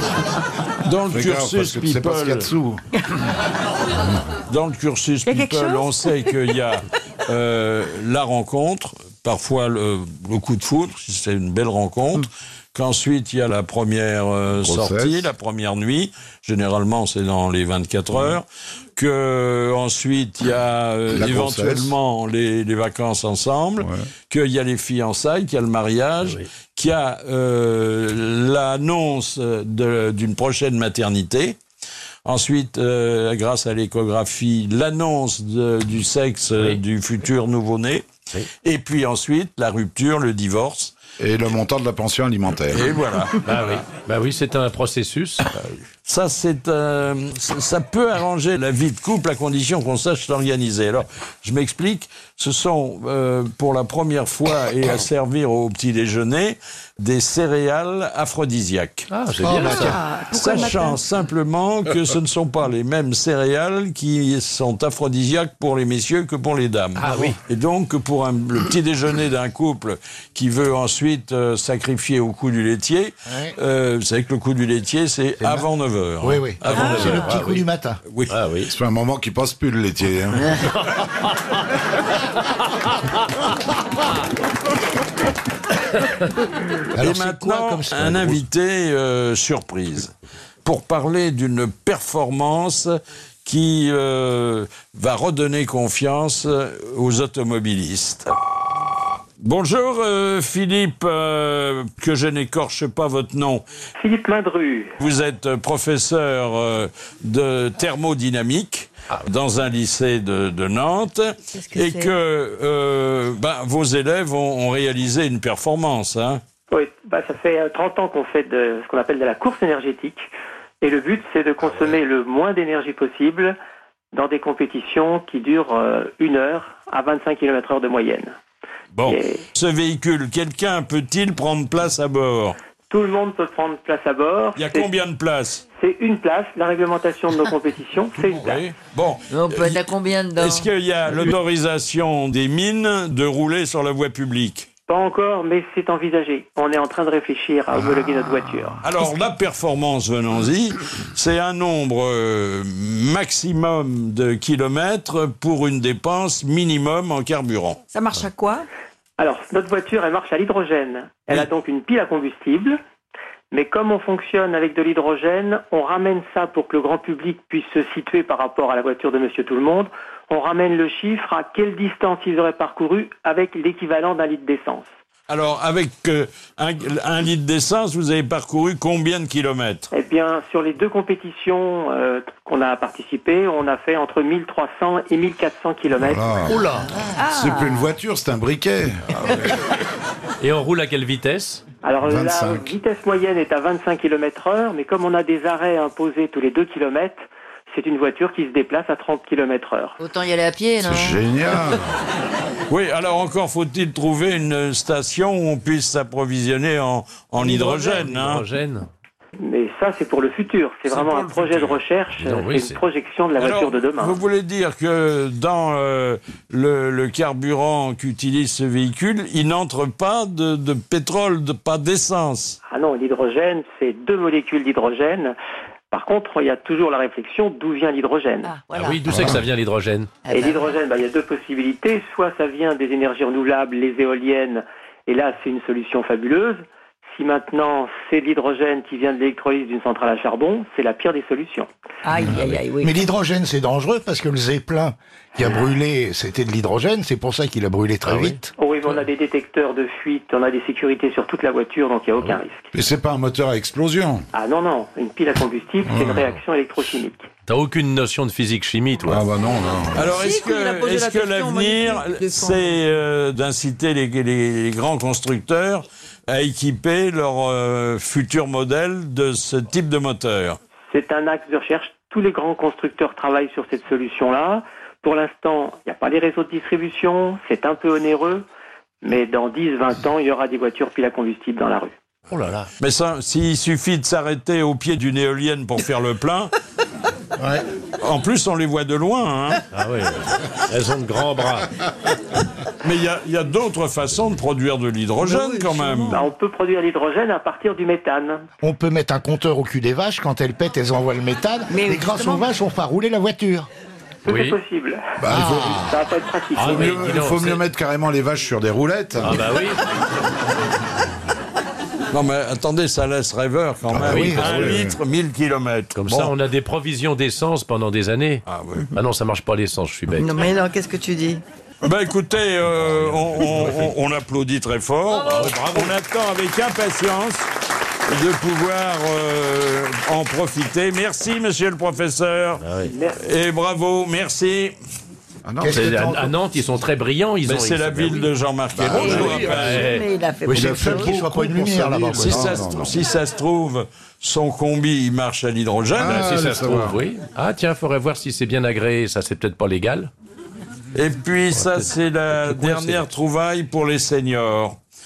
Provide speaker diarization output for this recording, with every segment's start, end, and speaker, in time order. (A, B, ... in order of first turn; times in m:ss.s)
0:00.8-0:02.5 A
0:01.1-0:02.8 B
0:04.5-0:18.4 A
0:05.2-0:06.3 C
0:14.6-0:15.3 B
0:19.0-0:31.6 A
0:21.1-0:21.9 B
0:23.8-0:24.0 B
0:32.2-0:38.1 A
0:38.6-0:40.9 A
0:41.2-0:43.0 B
0:42.7-0:43.8 A
0:43.4-0:45.7 D
0:46.0-0:59.1 A
0:59.1-1:00.0 D
0:59.4-1:00.0 E
0:59.5-1:01.0 C
1:00.3-1:17.5 A
1:07.0-1:07.4 D
1:16.2-1:18.0 E
1:16.8-1:17.2 C
1:16.8-1:17.6 D
1:18.1-1:18.3 A
1:18.3-1:18.7 D
1:18.7-1:20.5 B
1:27.0-1:28.4 E
1:27.0-1:30.1 A
1:30.6-1:38.3 A
1:39.4-1:43.6 A
1:44.0-1:45.0 F
1:45.0-1:56.4 A
1:51.5-1:52.1 C
1:56.7-2:00.3 F
2:00.8-2:03.6 F
2:04.1-2:08.4 F
2:09.0-2:12.6 A
2:09.0-2:09.4 F
2:12.9-2:14.9 F
2:14.6-2:15.6 A
2:15.8-2:18.6 F
2:18.2-2:19.8 A
2:19.3-2:20.7 G
2:20.4-2:24.7 A
2:24.9-2:28.8 F
2:28.8-2:37.8 A
2:37.9-2:38.6 C
2:39.2-2:42.8 F
2:43.5-2:54.9 F
2:55.3-2:59.9 A
2:59.9-3:06.3 F
3:06.0-3:06.6 B
3:06.5-3:06.9 D
3:07.1-3:07.8 C
3:07.2-3:09.5 B
3:10.4-3:11.6 D
3:11.8-3:20.0 F
3:12.0-3:12.7 B
3:20.0-3:21.2 G
3:20.8-3:21.9 B
3:22.7-3:28.4 A
3:27.4-3:28.9 D
3:29.4-3:34.2 F
3:30.9-3:32.8 D
3:33.4-3:42.6 A
3:42.7-3:45.4 F
3:45.9-3:48.6 F
3:48.4-3:49.0 C
3:48.7-3:50.2 D
3:49.1-3:49.4 B
3:50.2-3:50.6 G
3:50.3-4:01.7 F
4:02.0-4:03.0 C
4:02.3-4:08.5 E
4:08.0-4:08.4 D
4:08.6-4:12.7 F
4:12.7-4:14.2 B
4:14.3-4:17.3 F
4:15.8-4:16.2 B
4:17.5-4:19.2 D
4:19.1-4:20.1 B
4:19.9-4:30.6 A
4:20.0-4:22.6 C
4:30.9-4:38.4 F
4:39.0-4:42.0 F
4:42.3-4:42.7 D
4:42.8-4:46.5 A
4:48.0-4:49.6 A
4:49.7-4:51.7 D
4:52.8-4:56.2 A
4:55.2-4:56.2 C
4:56.1-4:58.4 F
4:58.6-5:03.7 E
5:01.7-5:02.5 C
5:04.2-5:07.2 F
5:04.3-5:04.6 D
5:05.2-5:05.9 B
5:05.3-5:05.9 E
5:06.5-5:07.6 D
5:06.6-5:09.5 B
5:09.2-5:09.8 D
5:12.1-5:16.3 A
5:13.9-5:15.0 B
5:14.0-5:14.8 E
5:14.1-5:14.7 D
5:16.0-5:20.3 D
5:18.5-5:18.9 A
5:20.1-5:21.4 C
5:21.8-5:27.5 A
5:22.8-5:23.9 D
5:25.1-5:26.0 D
5:28.1-5:32.6 A
5:32.6-5:32.9 D
5:32.9-5:33.2 F
5:33.2-5:34.7 A
5:35.5-5:36.2 B
5:35.6-5:36.3 E
5:35.7-5:40.1 D
5:37.5-5:39.8 A
5:38.8-5:39.8 B
5:38.9-5:41.2 C
5:40.5-5:42.7 E
5:40.5-5:43.0 B
5:42.1-5:46.3 A
5:46.0-5:47.0 B
5:46.0-5:50.1 D
5:50.9-5:54.8 A
5:51.5-5:53.1 D